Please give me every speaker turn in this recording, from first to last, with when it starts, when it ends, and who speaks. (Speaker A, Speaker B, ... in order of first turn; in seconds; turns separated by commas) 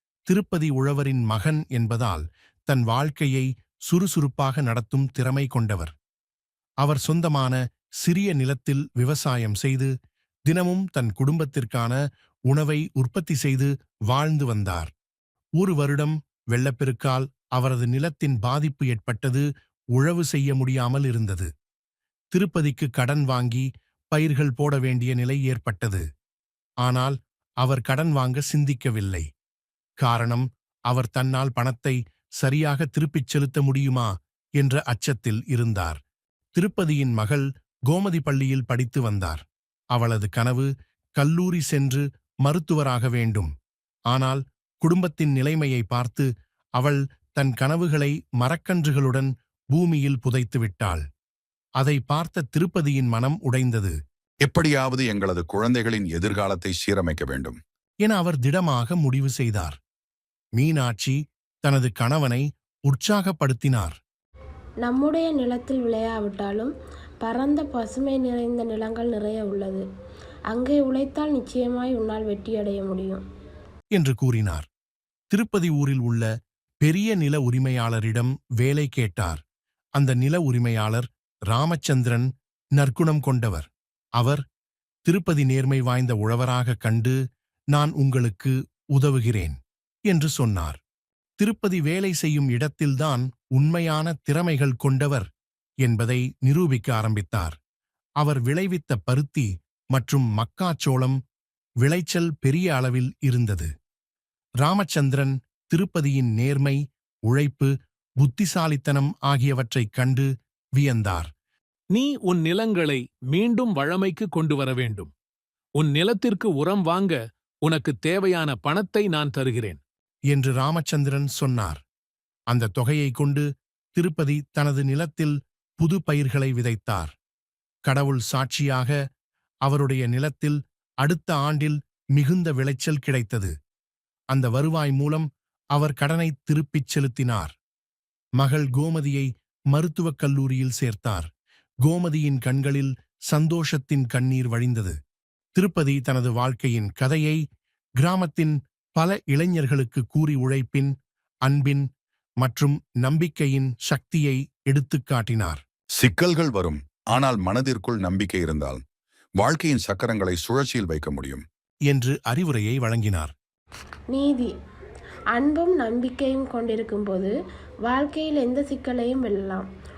Speaker A: 0.3-5.9, Speaker A: 6.8-9.9, Speaker A: 10.5-12.0, Speaker A: 12.5-14.9, Speaker A: 15.6-21.5, Speaker A: 22.3-26.0, Speaker A: 26.8-29.3, Speaker A: 30.0-36.0, Speaker A: 36.5-43.5, Speaker A: 44.1-51.0, Speaker A: 51.8-53.9, Speaker B: 54.5-57.6, Speaker A: 58.0-59.8, Speaker A: 60.6-64.0, Speaker C: 64.8-69.8, Speaker C: 70.5-73.2, Speaker A: 73.9-74.7, Speaker A: 75.3-76.3, Speaker A: 76.8-79.4, Speaker A: 80.0-84.4, Speaker A: 85.1-87.2, Speaker A: 87.7-89.6, Speaker A: 90.1-90.8, Speaker A: 91.4-95.3, Speaker A: 95.8-97.6, Speaker A: 98.2-101.2, Speaker A: 101.8-103.7, Speaker A: 104.6-111.3, Speaker D: 111.9-115.1, Speaker D: 115.8-119.8, Speaker A: 120.3-121.8, Speaker A: 122.5-123.4, Speaker A: 124.0-127.1, Speaker A: 127.8-128.9, Speaker A: 129.7-133.5, Speaker A: 134.3-137.6, Speaker A: 138.4-141.3, Speaker A: 141.8-144.9, Speaker A: 145.6-147.4, Speaker A: 148.0-150.9, Speaker A: 151.5-151.9, Speaker A: 152.4-155.6, Speaker B: 156.0-158.8, Speaker B: 159.4-161.4, Speaker A: 161.9-163.3, Speaker C: 164.1-164.5, Speaker C: 165.3-167.3, Speaker C: 167.8-169.7